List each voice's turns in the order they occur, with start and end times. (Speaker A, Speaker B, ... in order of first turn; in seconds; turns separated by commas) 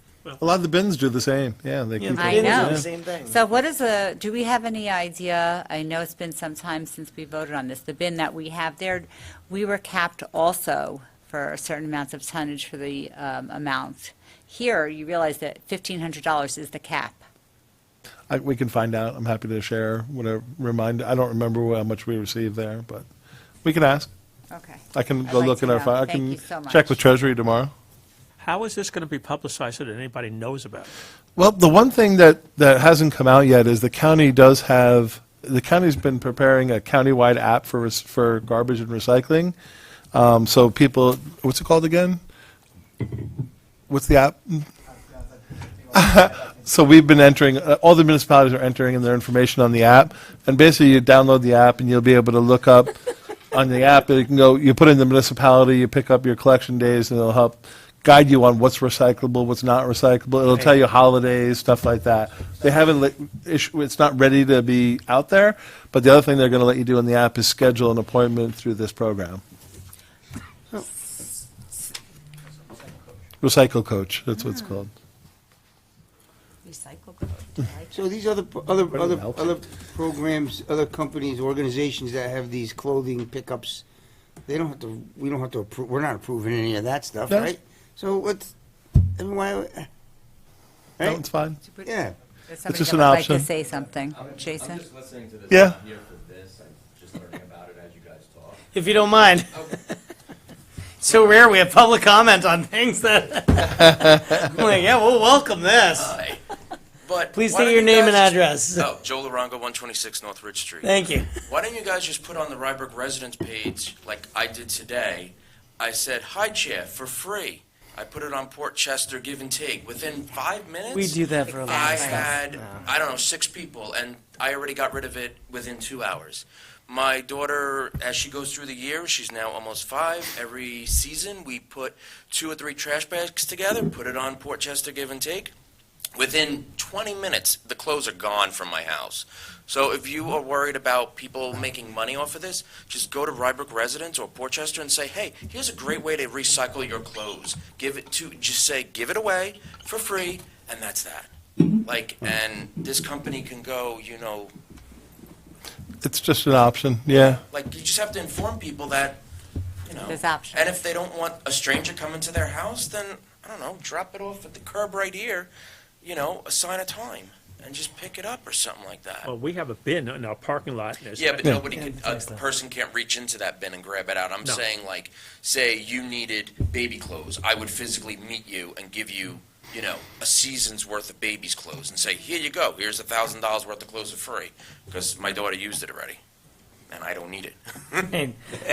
Speaker A: 0.4-2.9, Speaker B: 2.0-3.4, Speaker C: 2.1-17.2, Speaker A: 18.3-23.1, Speaker A: 23.6-24.1, Speaker C: 24.5-27.0, Speaker A: 24.9-27.7, Speaker D: 28.4-30.9, Speaker A: 31.4-39.5, Speaker A: 40.1-42.2, Speaker A: 43.9-44.7, Speaker A: 45.9-53.0, Speaker A: 53.5-69.4, Speaker A: 73.4-74.9, Speaker C: 76.7-78.0, Speaker E: 77.9-83.8, Speaker A: 78.9-79.6, Speaker E: 84.5-89.9, Speaker A: 91.0-91.6, Speaker C: 91.7-91.9, Speaker E: 91.8-92.2, Speaker C: 92.5-94.8, Speaker A: 92.7-93.5, Speaker F: 94.1-98.6, Speaker A: 95.5-95.8, Speaker B: 98.7-99.8, Speaker B: 101.0-106.2, Speaker G: 105.9-106.4, Speaker G: 107.0-135.5, Speaker B: 107.3-108.9, Speaker B: 110.8-111.3, Speaker B: 120.9-122.9, Speaker C: 121.5-122.3, Speaker G: 136.2-154.5, Speaker A: 156.0-157.4, Speaker G: 157.1-159.2, Speaker G: 159.9-165.5, Speaker C: 160.1-160.8, Speaker G: 166.0-169.3, Speaker D: 169.2-171.6, Speaker G: 171.2-186.2, Speaker B: 171.7-172.4, Speaker G: 186.9-188.1, Speaker B: 188.1-188.6